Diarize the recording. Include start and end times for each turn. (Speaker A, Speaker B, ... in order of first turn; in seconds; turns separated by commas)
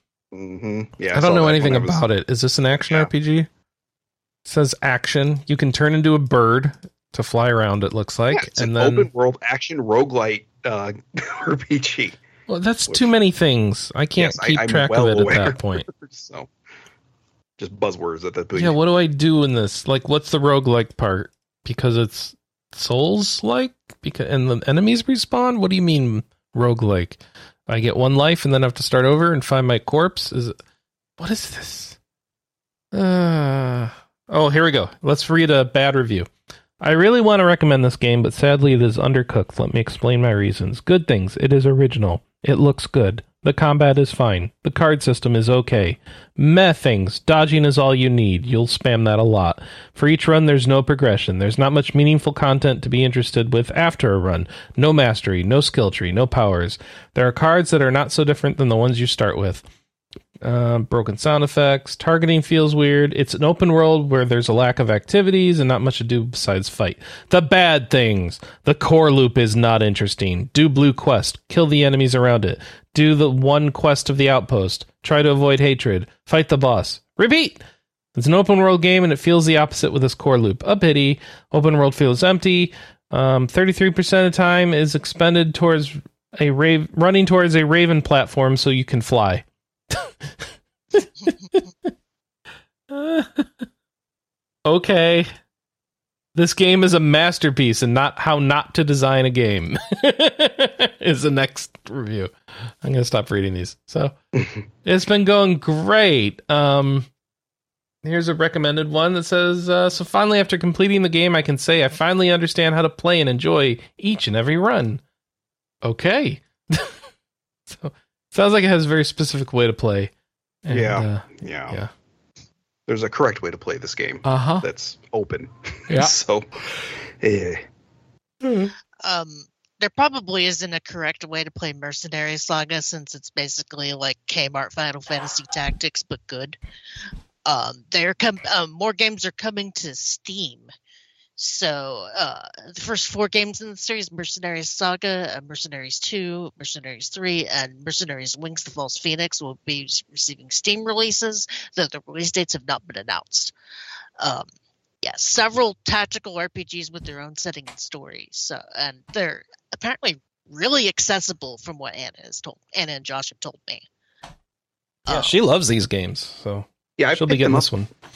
Speaker A: 0.3-2.0, Speaker B: 1.1-3.5, Speaker A: 2.8-3.1, Speaker B: 4.4-9.1, Speaker A: 8.3-12.2, Speaker B: 12.5-15.8, Speaker A: 14.2-16.5, Speaker A: 17.6-18.8, Speaker B: 18.6-30.6, Speaker B: 31.2-32.0, Speaker B: 32.9-36.3, Speaker B: 36.8-59.6, Speaker B: 60.4-77.6, Speaker B: 78.1-91.9, Speaker B: 92.9-93.6, Speaker B: 94.6-95.3, Speaker B: 96.3-102.3, Speaker B: 102.8-104.1, Speaker B: 104.8-107.1, Speaker B: 108.0-115.0, Speaker B: 115.8-117.0, Speaker B: 117.7-120.1, Speaker B: 120.6-121.9, Speaker A: 120.7-121.8, Speaker A: 122.9-126.5, Speaker B: 124.2-124.7, Speaker A: 127.2-127.6, Speaker B: 128.4-128.7, Speaker C: 129.0-136.6, Speaker C: 137.4-140.7, Speaker C: 141.4-153.5, Speaker C: 154.2-154.4, Speaker C: 155.0-163.8, Speaker C: 165.1-165.3, Speaker B: 165.1-167.9, Speaker A: 167.0-167.7